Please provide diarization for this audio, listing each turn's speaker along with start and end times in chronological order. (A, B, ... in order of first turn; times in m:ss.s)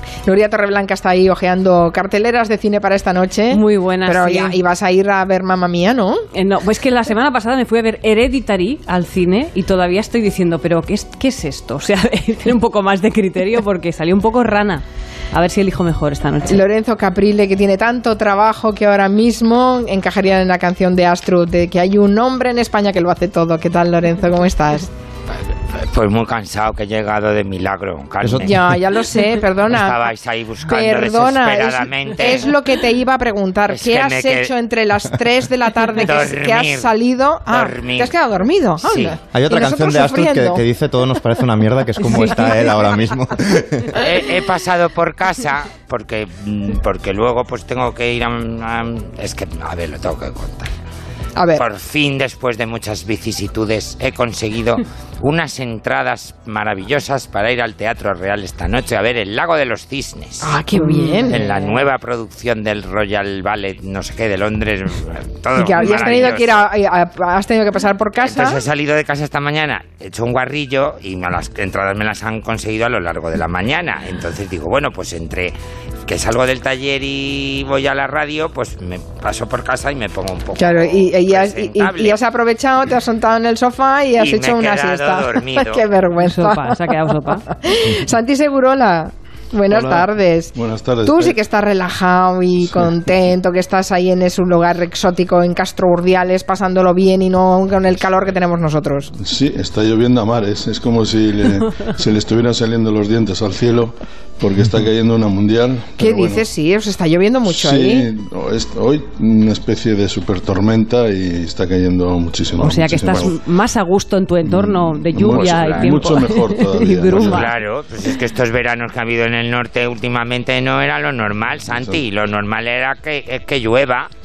0:00.2-0:06.2 A
0:03.5-0:04.6 B
0:06.3-0:16.6 B
0:16.4-0:24.9 A
0:25.3-0:28.6 C
0:28.2-0:28.7 D
0:28.4-0:30.0 A
0:29.7-0:32.5 C
0:30.6-0:40.6 A
0:33.7-0:34.5 C
0:36.0-0:36.9 C
0:37.5-0:38.1 C
0:38.8-0:39.2 C
0:39.3-0:44.0 D
0:43.9-0:50.7 C
0:51.4-0:51.6 A
0:51.5-1:00.6 C
1:00.4-1:01.5 A
1:00.8-1:01.5 B
1:01.3-1:06.6 C
1:05.6-1:08.6 A
1:08.2-1:15.5 C
1:16.0-1:22.2 C
1:20.6-1:39.1 A
1:24.2-1:25.8 C
1:26.2-1:27.5 B
1:29.7-1:31.4 E
1:39.2-1:46.4 E
1:46.0-1:48.1 A
1:47.5-1:53.4 E
1:52.6-1:57.5 B
1:54.4-1:57.5 E
1:55.2-1:56.2 C
1:57.1-2:04.1 C
2:01.7-2:02.0 E